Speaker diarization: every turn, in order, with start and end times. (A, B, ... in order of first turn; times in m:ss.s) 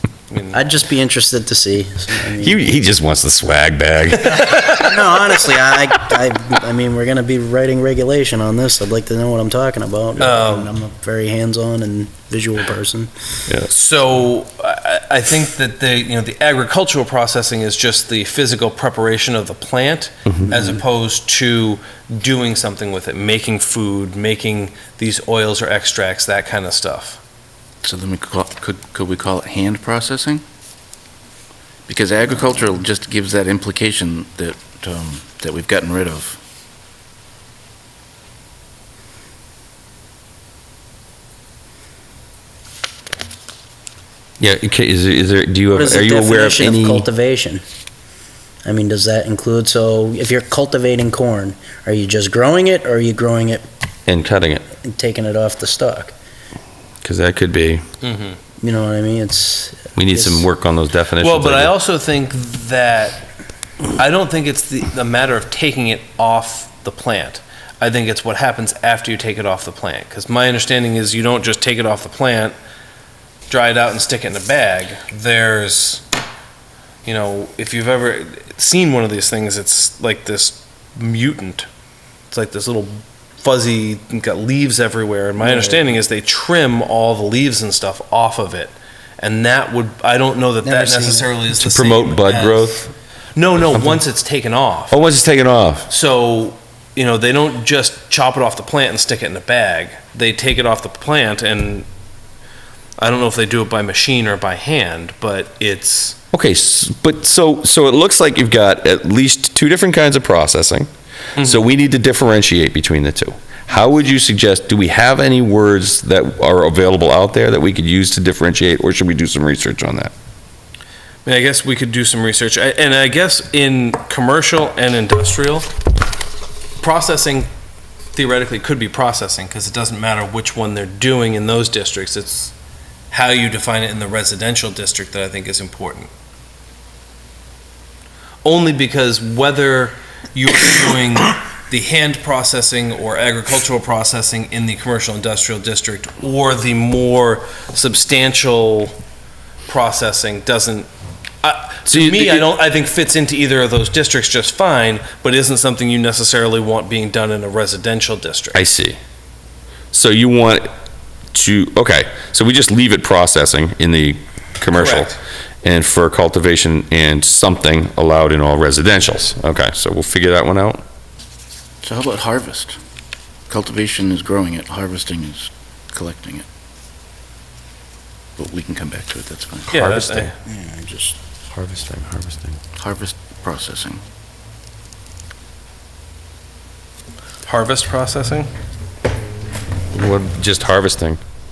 0:00.3-0:00.6 A
0:00.5-0:02.6 B
0:02.4-0:04.8 C
0:04.7-0:13.1 B
0:10.2-0:10.7 A
0:13.7-0:27.2 A
0:20.2-0:20.5 C
0:27.8-0:30.4 D
0:31.9-0:36.4 D
0:44.4-0:47.0 C
0:45.7-0:47.6 B
0:48.6-0:53.6 B
0:54.1-0:54.7 C
0:54.7-0:56.1 B
0:57.0-0:57.8 C
0:58.0-0:58.4 A
0:58.6-1:00.5 B
1:00.0-1:01.7 C
1:01.2-1:03.2 A
1:04.0-1:12.5 A
1:13.5-1:16.0 A
1:17.0-1:21.7 A
1:22.3-1:32.7 A
1:25.4-1:25.9 B
1:30.6-1:31.5 B
1:31.5-1:32.9 C
1:33.4-1:35.0 A
1:34.9-1:35.9 C
1:35.9-1:41.9 A
1:43.0-1:46.2 A
1:46.3-1:50.9 C
1:51.4-1:51.6 A
1:51.4-2:00.1 C
2:01.2-2:05.7 A
2:06.8-2:07.5 A
2:08.1-2:12.5 A
2:13.1-2:16.1 A
2:18.4-2:29.0 A
2:29.7-2:30.9 A
2:31.4-2:38.6 A
2:31.9-2:32.5 C
2:38.5-2:39.0 C
2:39.9-2:40.7 C
2:41.3-2:50.8 C
2:44.7-2:45.2 A
2:51.8-2:52.8 D
2:53.5-2:56.4 D
2:58.4-2:59.7 D
2:59.7-3:00.3 A
2:59.7-3:00.3 C
3:00.4-3:01.2 B
3:01.5-3:02.6 C
3:02.8-3:04.0 D
3:07.4-3:08.5 A
3:09.9-3:11.2 C